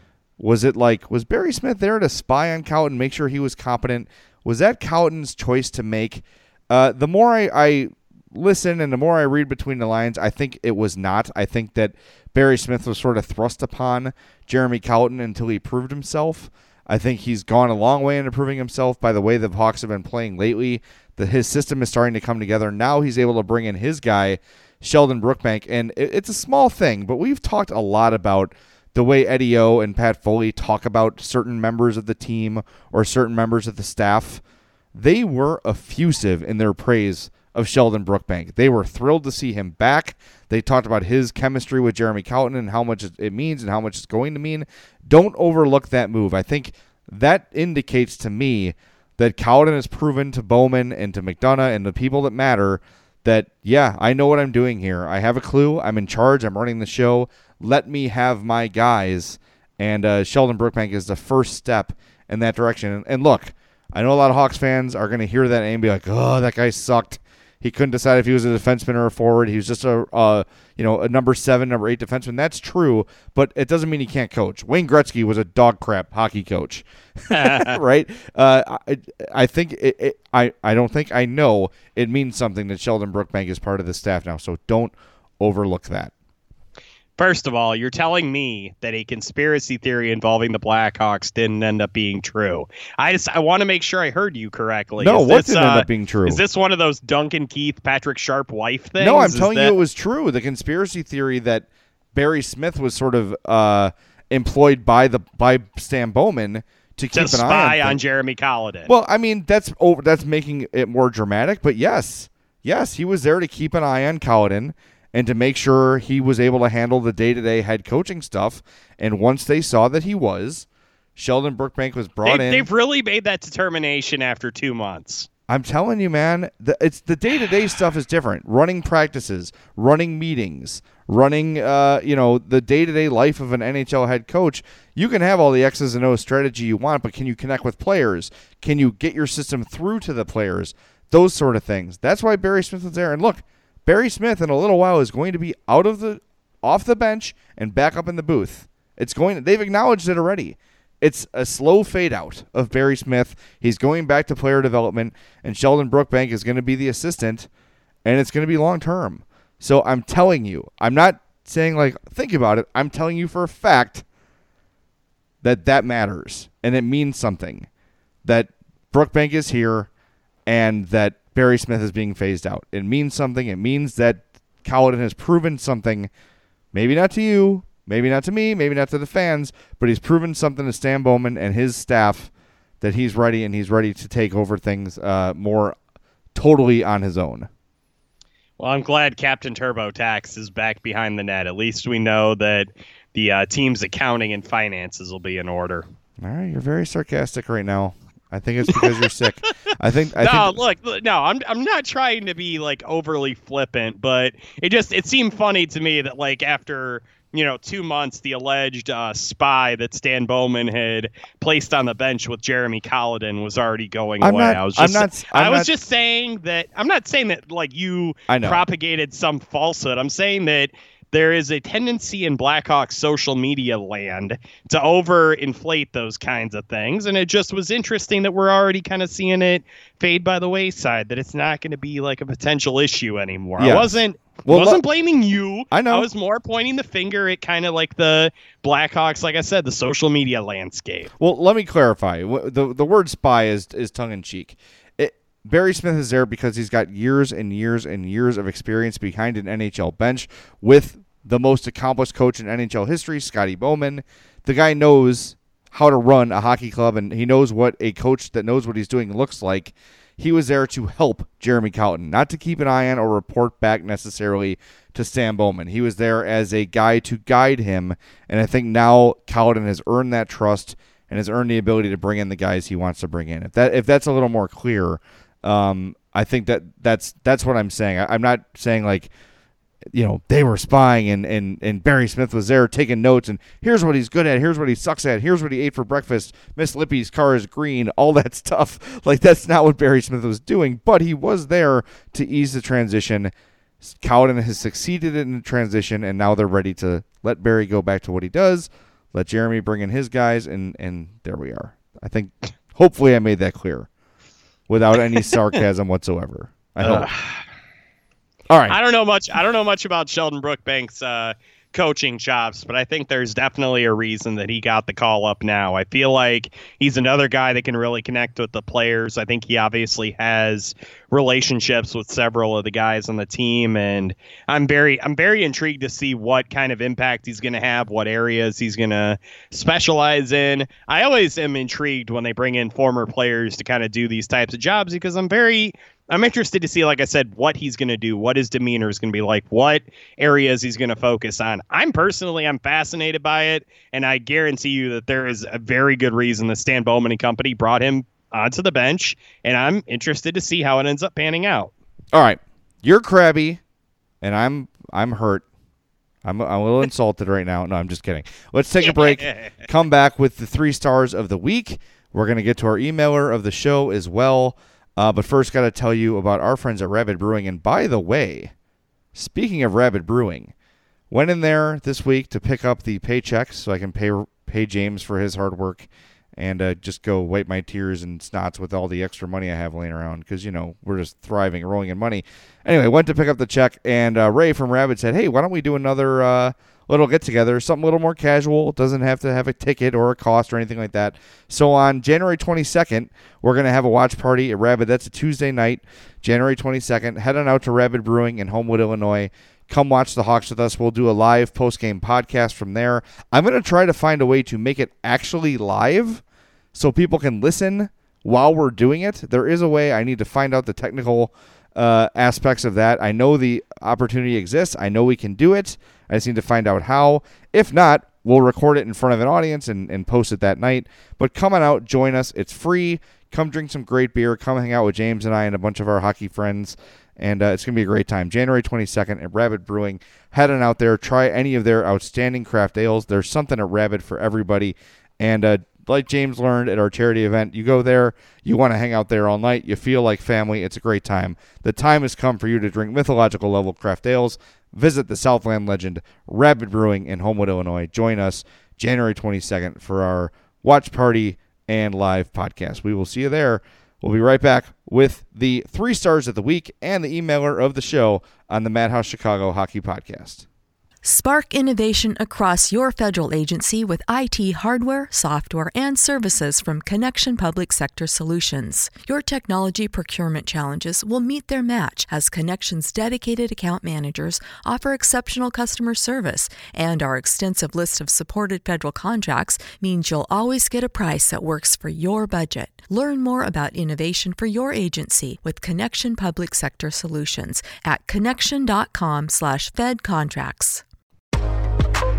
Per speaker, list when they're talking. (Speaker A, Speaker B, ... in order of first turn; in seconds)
Speaker A: 0.4-34.4, 34.9-86.1, 95.0-96.4, 99.0-108.0, 108.8-122.7, 125.5-157.5, 158.0-164.0, 165.4-167.7, 168.2-169.9, 170.4-176.1, 176.7-185.8, 186.3-187.5, 196.2-200.6, 214.2-215.7, 218.3-218.6, 233.6-234.8, 235.7-236.1, 241.2-279.1, 279.9-303.9, 304.7-307.1, 308.5-308.8, 352.1-353.6, 354.2-355.4, 356.2-368.5, 369.1-370.5, 371.1-406.2, 406.7-460.4
Speaker B: 77.3-77.8, 87.2-99.8, 107.1-108.9, 122.2-125.3, 188.6-195.8, 198.7-199.1, 200.2-241.1, 306.8-307.4, 308.7-351.7, 358.8-359.5
Speaker C: 461.0-490.8